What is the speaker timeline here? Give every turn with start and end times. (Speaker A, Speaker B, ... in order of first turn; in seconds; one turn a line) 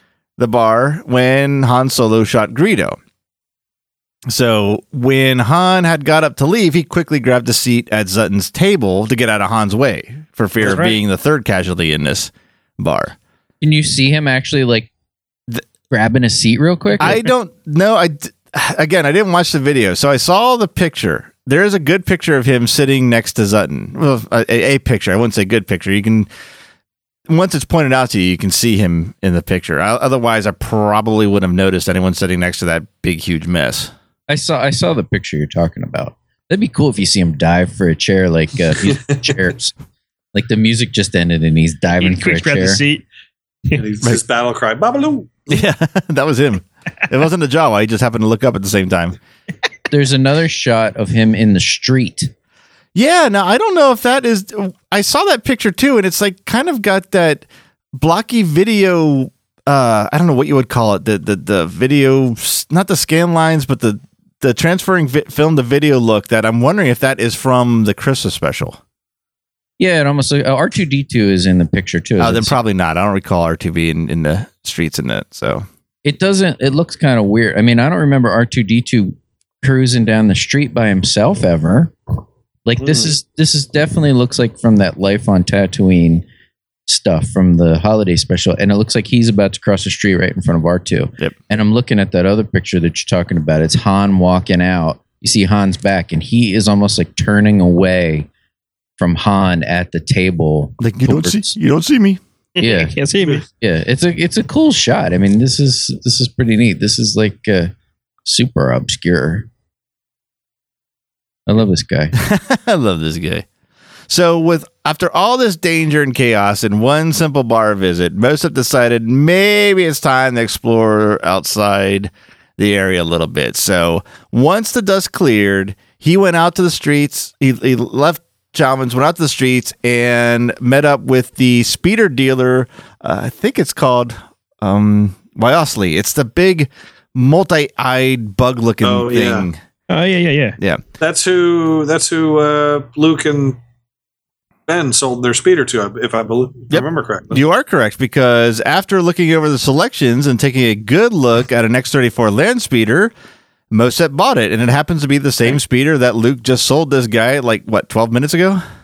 Speaker A: 0.4-3.0
Speaker A: 4.3-13.2
Speaker B: 10.7-10.9
Speaker C: 13.6-14.9
Speaker C: 15.9-17.2
Speaker A: 17.0-26.3
Speaker A: 27.3-33.9
Speaker C: 34.3-39.7
Speaker C: 40.3-42.8
Speaker B: 42.0-43.0
Speaker D: 43.8-45.5
Speaker A: 45.5-49.2
Speaker C: 49.9-52.3
Speaker A: 53.0-68.8
Speaker C: 69.8-72.6
Speaker A: 72.2-75.7
Speaker C: 76.0-81.9
Speaker C: 82.7-86.2
Speaker C: 86.9-98.3
Speaker C: 99.0-101.5
Speaker A: 100.8-102.2
Speaker B: 102.6-103.5
Speaker C: 102.6-103.0
Speaker C: 103.5-107.7
Speaker C: 108.2-109.5
Speaker C: 111.5-112.2
Speaker A: 112.2-113.5
Speaker A: 114.1-139.6
Speaker D: 138.8-139.5
Speaker B: 139.9-140.6
Speaker D: 141.0-143.6
Speaker D: 144.7-147.4
Speaker A: 146.7-153.1
Speaker A: 153.7-158.6